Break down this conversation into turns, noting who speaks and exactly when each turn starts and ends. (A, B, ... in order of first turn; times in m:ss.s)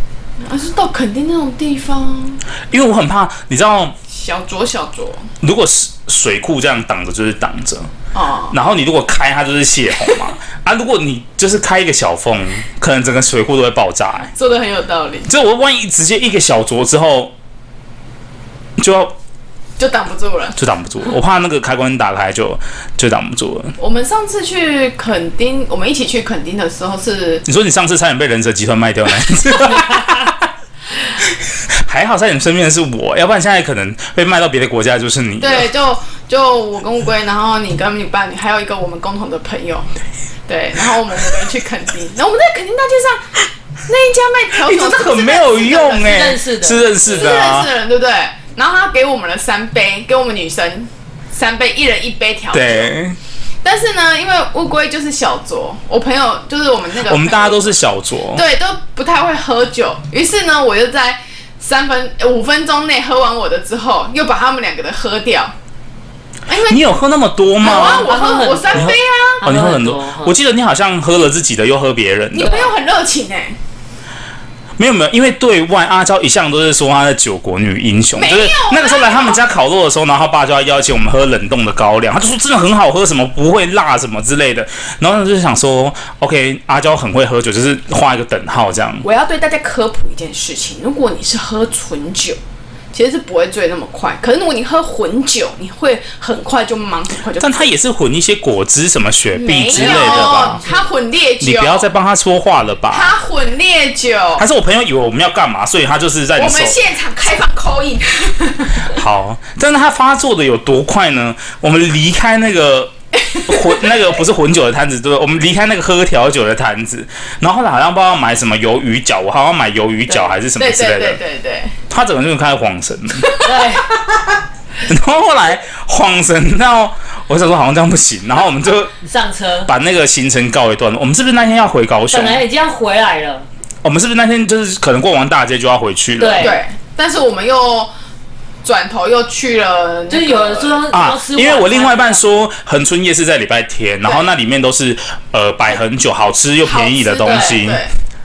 0:00.4-0:02.4 A
0:02.7-0:04.0 B
0:04.1-0:05.3 A
0:05.4-0:07.9 B
0:08.1-0:08.6 A
0:08.5-0:14.3 B
0:14.3-0:15.3 A
0:15.3-0:17.3 B
0:18.8-0:19.2 B
0:19.8-0:20.6 A
0:20.6-0:23.8 B
0:23.8-0:27.4 A
0:27.4-0:30.5 B
0:31.2-0:35.7 B
0:35.4-0:39.9 A
0:40.5-0:46.3 A
0:44.6-0:47.7 B
0:46.0-0:46.9 C
0:47.0-0:52.9 A
0:52.5-0:53.2 B
0:53.6-0:57.8 A
0:57.0-0:58.4 B
0:58.3-1:05.5 A
1:06.5-1:06.8 A
1:06.6-1:08.2 B
1:07.6-1:09.4 A
1:07.6-1:10.3 C
1:08.7-1:12.7 B
1:12.3-1:13.6 A
1:14.8-1:29.1 B
1:18.2-1:19.4 A
1:29.0-1:32.4 A
1:32.9-1:37.7 A
1:37.4-1:40.6 B
1:39.3-1:41.9 A
1:39.7-1:40.9 C
1:41.4-1:43.2 B
1:42.9-1:44.4 A
1:44.4-1:46.8 B
1:46.4-1:48.9 A
1:48.8-1:52.9 B
1:53.2-1:54.0 A
1:53.5-2:01.2 B
2:00.3-2:01.8 A
2:01.9-2:03.3 B
2:03.2-2:04.2 A
2:03.4-2:04.0 C
2:04.9-2:09.0 B
2:09.0-2:09.7 C
2:09.7-2:12.4 B
2:12.1-2:13.5 C
2:13.8-2:16.6 B
2:16.2-2:16.6 C
2:16.4-2:17.9 A
2:18.6-2:20.9 A
2:20.1-2:22.3 C
2:20.9-2:27.8 B
2:26.6-2:27.9 A
2:27.2-2:27.6 C